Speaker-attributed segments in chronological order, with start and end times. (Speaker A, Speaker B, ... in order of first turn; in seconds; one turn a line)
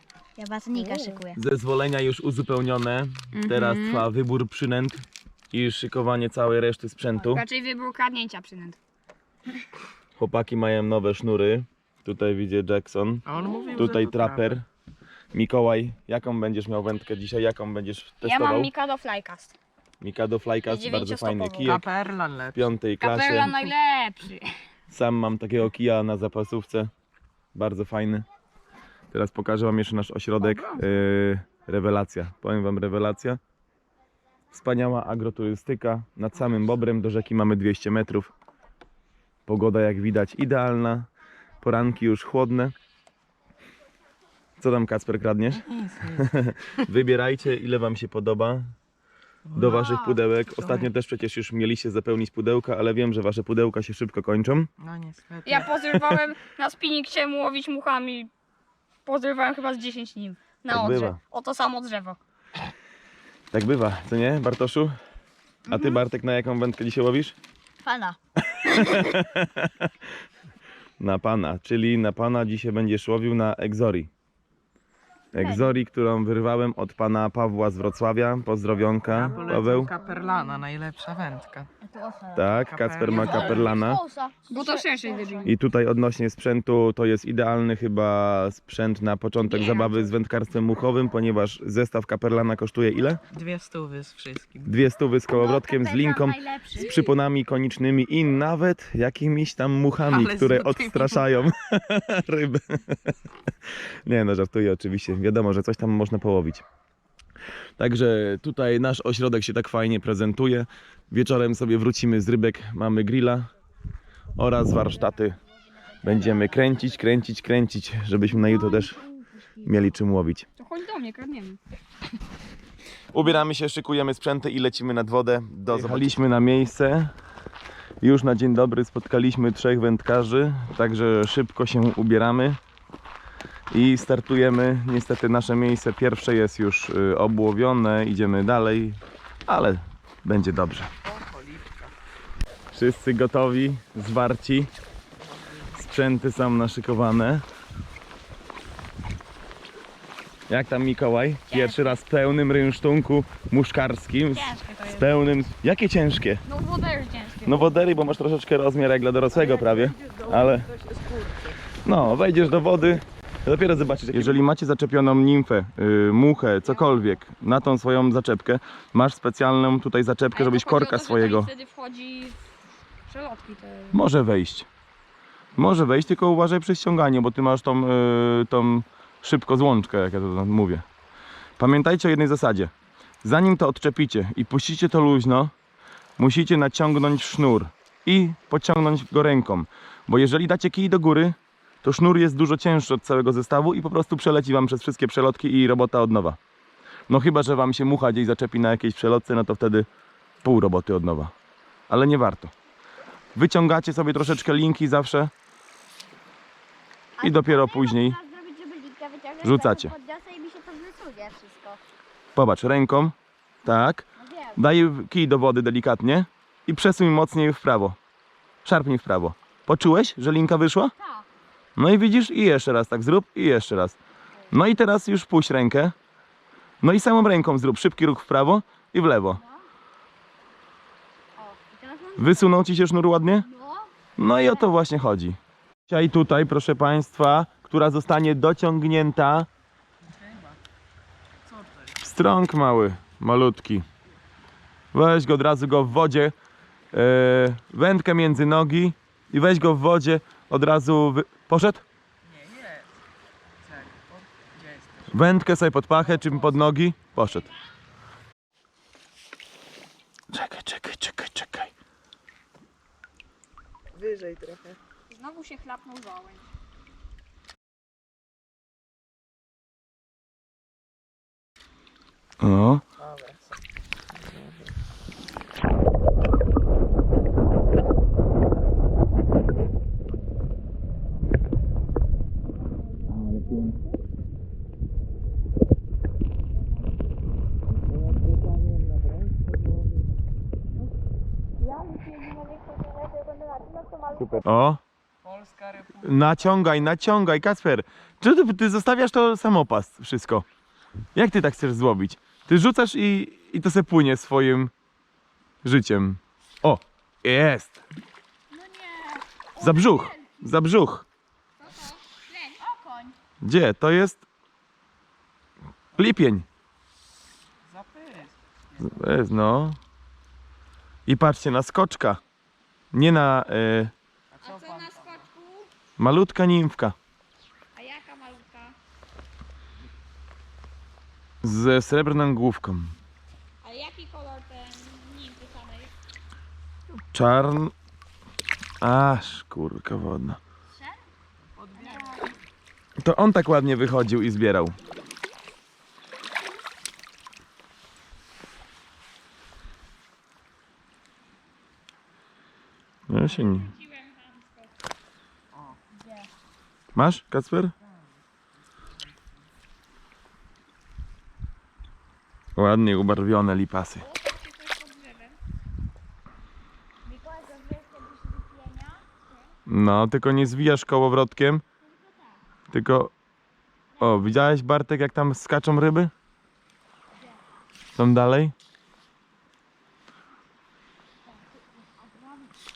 Speaker A: 0.4-1.4
Speaker B: 0.7-1.2
Speaker C: 1.3-7.4
Speaker B: 3.3-4.1
Speaker B: 7.2-8.8
Speaker C: 10.2-14.6
Speaker D: 13.2-14.6
Speaker B: 13.3-13.9
Speaker C: 15.3-18.7
Speaker B: 18.2-19.5
Speaker C: 20.0-21.8
Speaker B: 20.6-21.8
Speaker D: 21.6-22.7
Speaker C: 22.5-23.5
Speaker B: 23.0-24.5
Speaker D: 23.4-23.7
Speaker C: 24.9-26.9
Speaker C: 27.5-28.2
Speaker C: 29.1-33.4
Speaker B: 30.4-30.8
Speaker C: 34.5-38.3
Speaker C: 39.5-41.1
Speaker C: 41.6-42.7
Speaker C: 44.6-48.7
Speaker D: 45.6-46.3
Speaker D: 49.5-50.9
Speaker C: 49.5-54.7
Speaker D: 54.8-56.2
Speaker B: 55.4-58.3
Speaker B: 59.0-62.2
Speaker C: 60.7-61.1
Speaker C: 63.5-65.0
Speaker C: 65.7-67.4
Speaker A: 65.7-66.0
Speaker A: 67.8-68.2
Speaker C: 68.4-69.9
Speaker C: 71.0-74.1
Speaker C: 75.3-79.9
Speaker A: 75.3-75.8
Speaker D: 79.1-81.7
Speaker A: 81.8-82.5
Speaker C: 82.3-84.0
Speaker D: 82.6-83.7
Speaker A: 83.1-85.5
Speaker B: 84.5-85.5
Speaker C: 85.4-93.2
Speaker B: 89.5-90.0
Speaker D: 93.3-94.7
Speaker C: 94.6-103.1
Speaker A: 95.3-97.1
Speaker D: 100.0-101.4
Speaker C: 104.0-106.6
Speaker C: 107.8-113.5
Speaker C: 114.3-115.4
Speaker A: 116.0-116.6
Speaker C: 116.0-119.0
Speaker A: 118.3-119.8
Speaker C: 119.6-120.5
Speaker B: 120.6-121.6
Speaker C: 123.1-127.1
Speaker C: 128.0-132.6
Speaker C: 133.7-140.9
Speaker D: 141.0-141.9
Speaker C: 142.7-144.7
Speaker D: 145.2-145.7
Speaker C: 145.8-147.4
Speaker C: 150.5-156.4
Speaker B: 151.5-152.0
Speaker B: 154.3-155.1
Speaker B: 156.4-157.7
Speaker C: 157.4-160.7
Speaker D: 159.3-161.6
Speaker C: 161.8-171.5
Speaker B: 166.7-167.0
Speaker B: 170.3-172.4
Speaker B: 173.1-174.0
Speaker C: 173.9-174.7
Speaker C: 175.6-180.8
Speaker C: 181.6-182.7
Speaker C: 183.2-185.5
Speaker C: 186.2-196.4
Speaker C: 197.1-199.9
Speaker C: 200.4-201.3
Speaker C: 201.9-202.5
Speaker C: 203.3-205.3
Speaker A: 207.2-211.8
Speaker C: 207.2-208.2
Speaker C: 209.4-209.9
Speaker C: 212.3-214.0
Speaker A: 214.2-214.6
Speaker C: 214.6-218.0
Speaker C: 218.6-220.9
Speaker A: 221.0-221.3
Speaker C: 221.8-224.0
Speaker C: 224.5-225.9
Speaker C: 226.8-229.4
Speaker A: 229.3-229.7
Speaker A: 231.3-232.6
Speaker C: 232.2-233.4
Speaker A: 233.4-233.9
Speaker C: 234.2-239.5
Speaker C: 242.0-243.8
Speaker C: 244.9-246.3
Speaker C: 246.9-251.8
Speaker D: 252.3-252.9
Speaker D: 253.6-255.1
Speaker C: 255.1-257.5
Speaker D: 256.2-256.5
Speaker C: 260.3-261.7
Speaker D: 263.9-264.8
Speaker B: 265.1-266.5
Speaker C: 272.4-272.8
Speaker D: 273.0-273.5
Speaker B: 291.6-294.4
Speaker C: 294.2-294.8
Speaker D: 295.2-296.4
Speaker C: 296.0-300.4
Speaker C: 301.1-304.7
Speaker C: 305.6-307.8
Speaker A: 308.5-310.5
Speaker C: 309.6-311.1
Speaker B: 311.6-312.6
Speaker A: 312.6-313.2
Speaker C: 313.4-314.2
Speaker C: 315.9-316.4
Speaker D: 317.6-319.0
Speaker C: 318.8-319.8
Speaker C: 321.1-322.2
Speaker C: 322.9-323.9
Speaker D: 324.3-325.3
Speaker B: 324.4-325.7
Speaker C: 326.0-326.9
Speaker B: 327.7-328.8
Speaker C: 331.4-332.9
Speaker B: 333.6-335.9
Speaker C: 337.1-337.7
Speaker C: 338.8-340.4
Speaker D: 341.6-342.1
Speaker A: 341.7-342.2
Speaker C: 343.0-344.8
Speaker C: 353.1-353.7
Speaker B: 353.2-354.7
Speaker C: 356.9-357.7
Speaker C: 362.6-364.0
Speaker B: 364.0-365.4
Speaker A: 367.0-369.3
Speaker C: 369.7-371.6
Speaker A: 371.9-372.4
Speaker C: 372.7-373.1
Speaker C: 374.0-376.1
Speaker C: 377.9-378.5
Speaker A: 381.8-382.5